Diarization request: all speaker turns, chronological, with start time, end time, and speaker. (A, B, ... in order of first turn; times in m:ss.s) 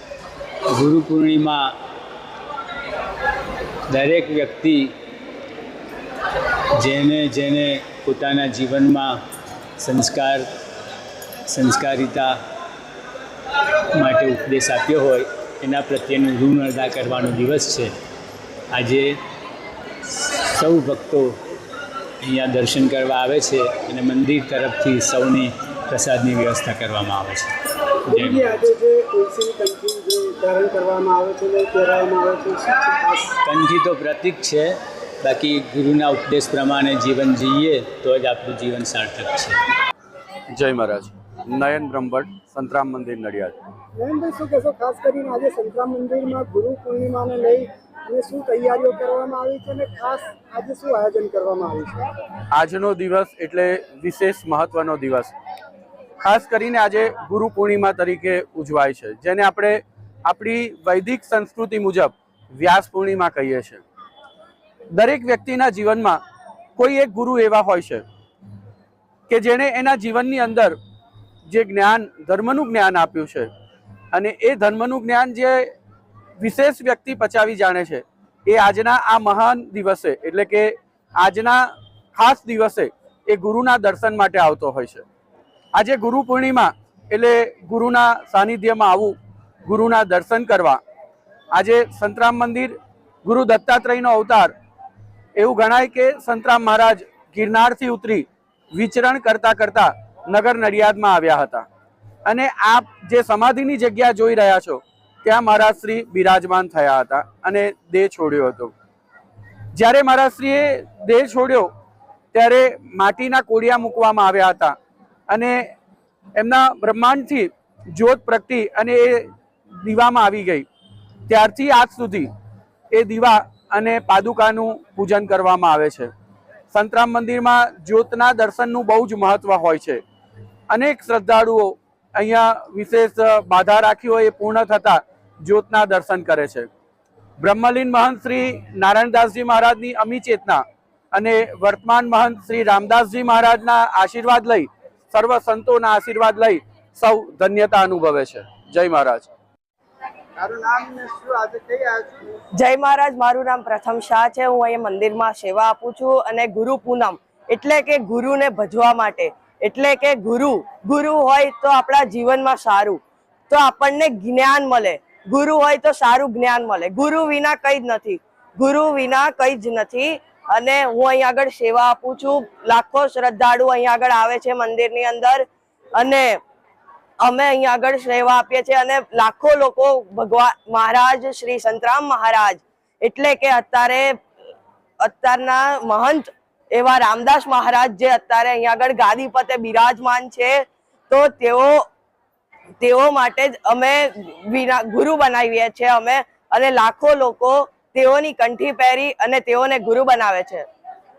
0:00.7-0:01.7 A
0:03.9-0:04.9 A
0:06.8-0:09.2 A
0:09.8-0:10.5 A
0:11.5-0:12.3 A
0:13.9-0:17.9 A
0:18.7-0:19.2 A
0:20.0-0:21.4 A
0:22.2-0:27.5 A
0:28.1-0:28.5 A
0:28.1-0:33.4 B
0:33.4-0:39.6 A
0:40.5-0:43.6 C
0:44.0-0:52.0 B
0:52.5-0:55.3 C
0:56.2-1:03.8 C
1:04.9-1:06.2 C
1:06.8-1:08.0 C
1:09.3-1:10.8 C
1:11.5-1:13.5 C
1:14.1-1:15.7 C
1:16.4-1:25.0 C
1:25.7-1:29.2 C
1:29.7-1:30.8 C
1:31.5-1:34.5 C
1:35.4-1:41.7 C
1:42.2-1:48.7 C
1:49.7-1:51.7 C
1:52.3-1:54.8 C
1:55.3-1:55.7 C
1:56.4-1:59.3 C
1:59.8-2:00.7 C
2:01.3-2:02.3 C
2:02.9-2:06.1 C
2:06.7-2:10.0 C
2:10.7-2:16.7 C
2:17.4-2:29.3 C
2:30.4-2:32.3 B
2:32.6-2:55.5 D
2:56.0-2:56.4 D
2:57.2-3:04.2 D
3:05.0-3:11.9 D
3:12.8-3:20.7 D